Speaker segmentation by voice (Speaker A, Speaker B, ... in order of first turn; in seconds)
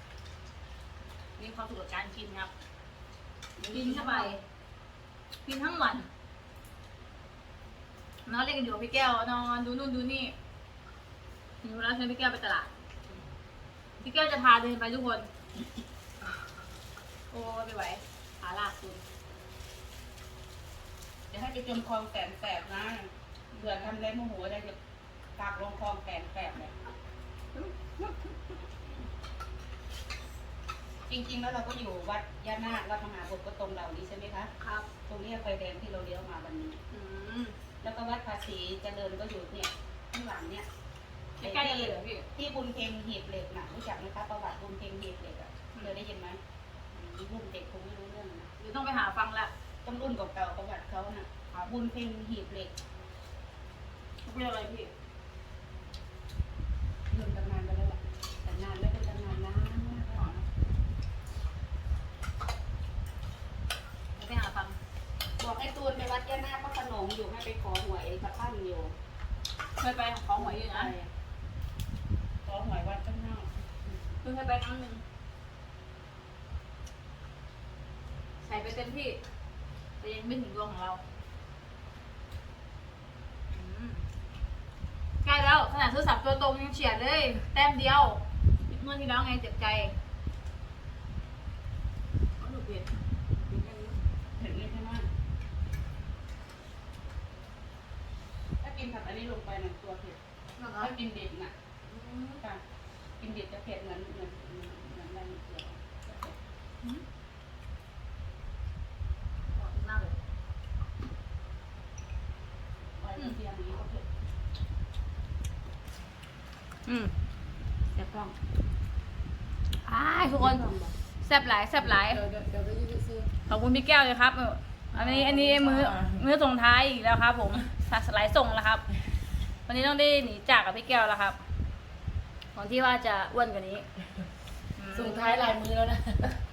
Speaker A: 1.4-2.5, 3.7-4.4, 5.5-6.1, 8.3-10.3, 11.6-12.7, 14.0-15.3, 17.3-19.0, 23.5-23.9, 27.6-28.3, 34.6-34.9, 36.9-37.6, 41.4-42.3, 48.6-49.5, 54.2-54.9, 60.2-60.4, 64.2-64.8, 69.8-70.9, 74.2-75.0, 78.4-79.2, 80.0-81.0, 83.5-84.0, 85.2-90.0, 92.4-92.9, 93.5-94.0, 109.5-110.2, 116.9-117.1, 119.8-120.7, 121.2-122.2, 123.5-128.8, 129.7-131.4, 132.6-133.9, 134.8-135.6
Speaker B: 3.6-4.3, 21.3-24.8, 25.4-26.7, 31.1-34.5, 35.1-36.8, 37.8-40.7, 41.4-46.4, 46.9-48.5, 49.8-52.7, 57.1-60.4, 65.4-68.9, 70.4-71.1, 72.5-74.0, 94.4-95.1, 98.6-100.2, 100.7-101.5, 103.2-106.3, 113.0-114.0, 118.0-118.3, 120.4-120.9
Speaker C: 102.0-102.3, 121.8-123.3, 124.9-126.2, 134.9-136.4